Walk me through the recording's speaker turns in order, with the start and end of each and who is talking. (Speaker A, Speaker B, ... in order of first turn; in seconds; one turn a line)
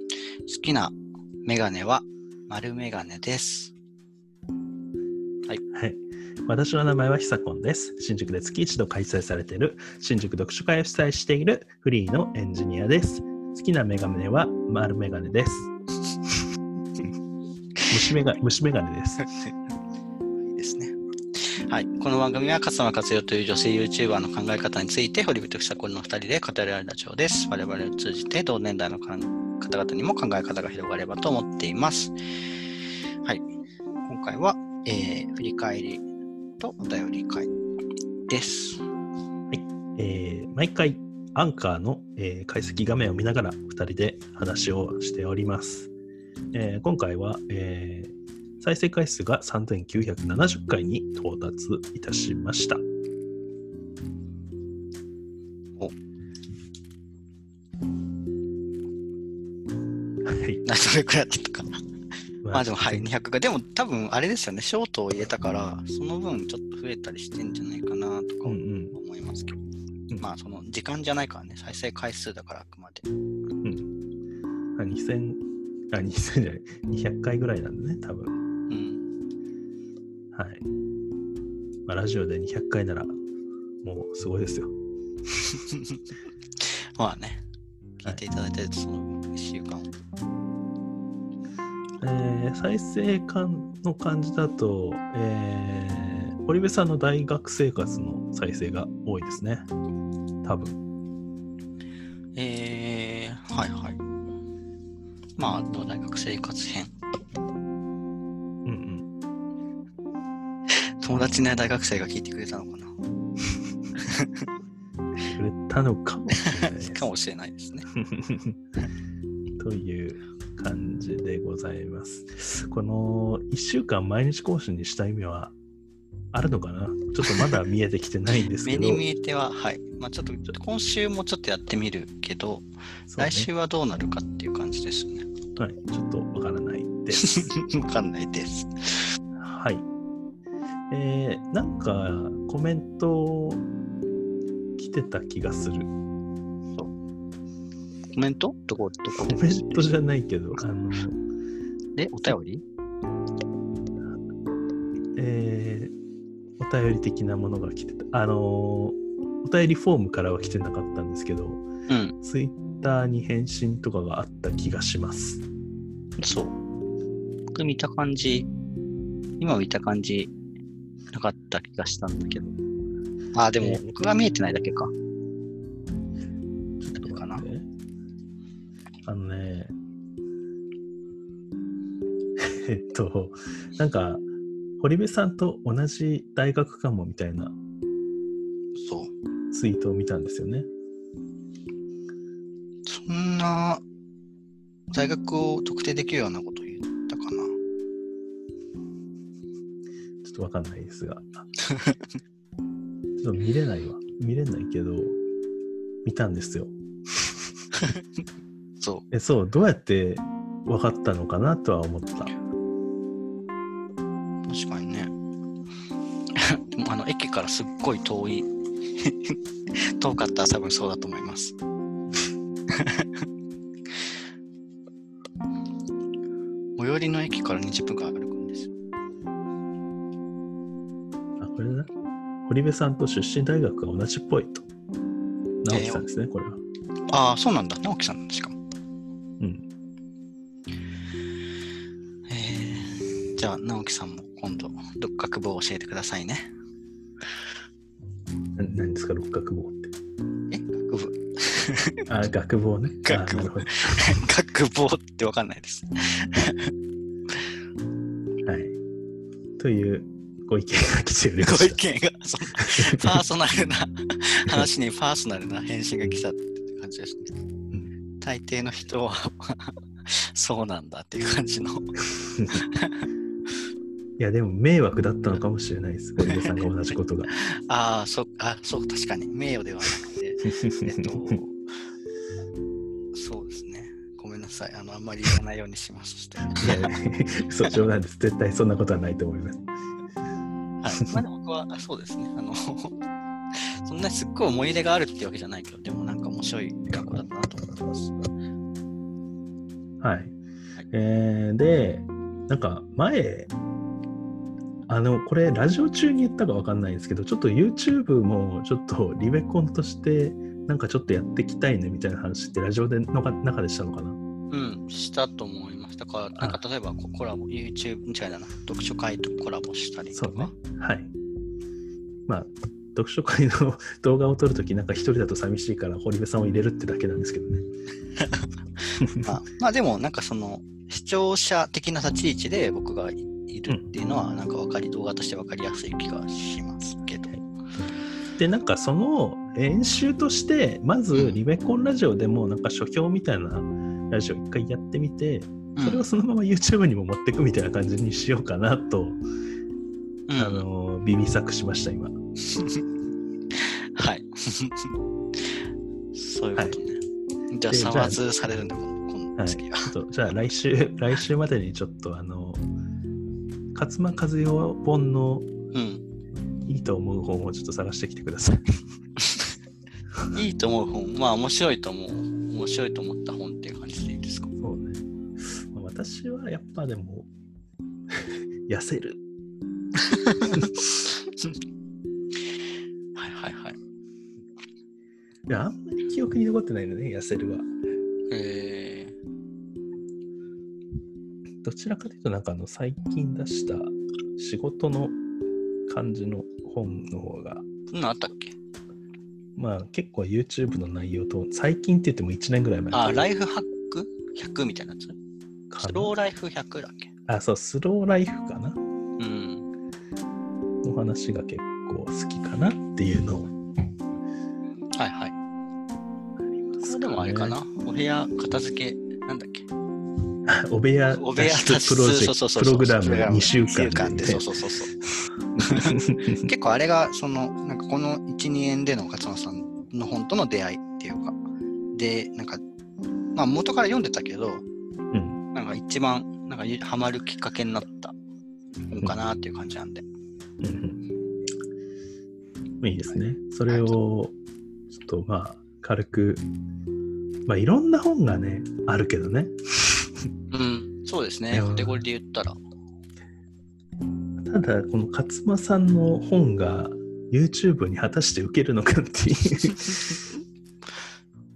Speaker A: 0.5-3.7
Speaker B: 5.7-15.7
Speaker B: 17.9-19.2
Speaker A: 20.4-32.1
Speaker A: 34.0-36.0
Speaker A: 36.6-37.5
Speaker A: 38.3-38.9
Speaker B: 39.5-45.9
Speaker B: 46.5-52.8
Speaker B: 60.2-60.6
Speaker A: 60.6-61.8
Speaker B: 62.4-63.1
Speaker A: 62.5-69.6
Speaker B: 68.5-69.0
Speaker A: 70.2-73.1
Speaker B: 73.6-73.9
Speaker B: 74.8-78.4
Speaker A: 78.7-79.0
Speaker B: 80.3-80.7
Speaker B: 81.9-83.1
Speaker B: 83.8-84.8
Speaker A: 85.5-86.0
Speaker A: 86.6-87.4
Speaker A: 88.0-89.9
Speaker B: 92.0-99.7
Speaker B: 100.4-100.8
Speaker A: 102.3-104.0
Speaker A: 105.4-106.9
Speaker B: 108.7-109.1
Speaker A: 110.8-112.9
Speaker A: 114.0-114.5
Speaker B: 115.3-117.0
Speaker A: 116.4-117.9
Speaker B: 118.0-118.6
Speaker B: 119.6-125.5
Speaker B: 126.3-129.0
Speaker A: 127.3-127.6
Speaker A: 128.6-135.3
Speaker B: 133.1-133.5
Speaker B: 135.6-137.5
Speaker A: 137.2-139.2
Speaker B: 139.4-139.9
Speaker B: 140.9-143.6
Speaker B: 144.8-145.9
Speaker A: 148.1-150.0
Speaker B: 149.2-151.2
Speaker A: 152.0-152.6
Speaker B: 155.2-155.9
Speaker B: 156.6-161.7
Speaker A: 161.9-162.2
Speaker B: 162.2-165.4
Speaker A: 166.2-166.6
Speaker A: 167.5-168.5
Speaker A: 169.4-170.3
Speaker A: 171.1-172.6
Speaker A: 173.3-174.9
Speaker B: 173.6-173.9
Speaker B: 176.8-177.7
Speaker A: 176.9-177.4
Speaker B: 179.1-179.7
Speaker B: 182.4-184.2
Speaker B: 184.8-187.6
Speaker A: 188.8-189.1
Speaker B: 189.5-190.7
Speaker A: 192.9-193.8
Speaker A: 194.9-197.5
Speaker B: 200.2-201.5
Speaker A: 201.6-202.1
Speaker B: 203.2-205.2
Speaker B: 206.1-206.7
Speaker A: 207.8-208.0
Speaker A: 208.8-209.1
Speaker B: 209.1-212.3
Speaker A: 214.4-215.1
Speaker A: 216.3-221.6
Speaker A: 222.7-223.2
Speaker A: 226.8-228.7
Speaker B: 231.4-231.9
Speaker B: 232.5-234.7
Speaker B: 235.6-236.6
Speaker A: 235.7-236.1
Speaker A: 237.1-238.6
Speaker B: 239.4-239.7
Speaker A: 242.3-246.5
Speaker B: 248.6-249.9
Speaker A: 250.5-252.0
Speaker B: 252.1-254.1
Speaker A: 253.0-256.7
Speaker B: 258.4-258.8
Speaker B: 259.6-261.8
Speaker A: 261.4-267.4
Speaker B: 262.6-263.2
Speaker A: 268.2-272.0
Speaker A: 272.5-273.1
Speaker B: 274.2-277.3
Speaker A: 276.2-276.5
Speaker A: 277.3-281.6
Speaker B: 280.5-281.4
Speaker A: 283.1-286.9
Speaker B: 286.6-289.6
Speaker A: 290.8-293.0
Speaker A: 293.5-298.1
Speaker B: 296.9-297.2
Speaker B: 300.0-300.3
Speaker B: 300.9-303.5
Speaker B: 304.9-314.2
Speaker A: 314.5-320.5
Speaker B: 320.1-321.1
Speaker B: 322.3-327.6
Speaker A: 328.2-337.4
Speaker B: 329.0-329.3
Speaker B: 337.3-349.2
Speaker A: 341.1-341.4
Speaker A: 345.8-346.1
Speaker A: 350.3-350.7
Speaker B: 350.4-352.1
Speaker A: 352.5-352.8
Speaker A: 353.5-359.9
Speaker B: 357.7-358.2
Speaker B: 359.4-362.6
Speaker B: 363.8-365.5
Speaker A: 365.7-366.0
Speaker B: 366.7-368.6
Speaker A: 369.2-369.5
Speaker A: 370.3-374.5
Speaker B: 374.6-377.3
Speaker B: 378.1-379.2
Speaker A: 380.0-381.6
Speaker A: 383.1-383.8
Speaker B: 385.5-387.7
Speaker A: 388.3-389.2
Speaker B: 391.6-395.2
Speaker B: 395.9-397.6
Speaker A: 397.9-398.6
Speaker B: 399.6-403.3
Speaker A: 402.9-405.2
Speaker B: 405.7-406.1
Speaker A: 405.8-407.1
Speaker B: 407.3-408.8
Speaker A: 409.2-409.7
Speaker B: 410.8-413.5
Speaker A: 415.0-415.4
Speaker B: 416.7-417.6
Speaker A: 416.8-419.7
Speaker B: 420.5-424.4
Speaker A: 421.1-425.0
Speaker B: 425.0-426.4
Speaker A: 425.6-431.4
Speaker A: 431.9-432.6
Speaker A: 433.4-434.6
Speaker B: 435.1-435.4
Speaker A: 435.5-438.1
Speaker A: 438.8-440.0
Speaker B: 440.6-441.0
Speaker B: 442.8-444.3
Speaker A: 443.7-444.0
Speaker B: 444.9-446.4
Speaker B: 447.5-450.1
Speaker A: 450.5-452.6
Speaker B: 451.5-452.1
Speaker B: 454.4-460.2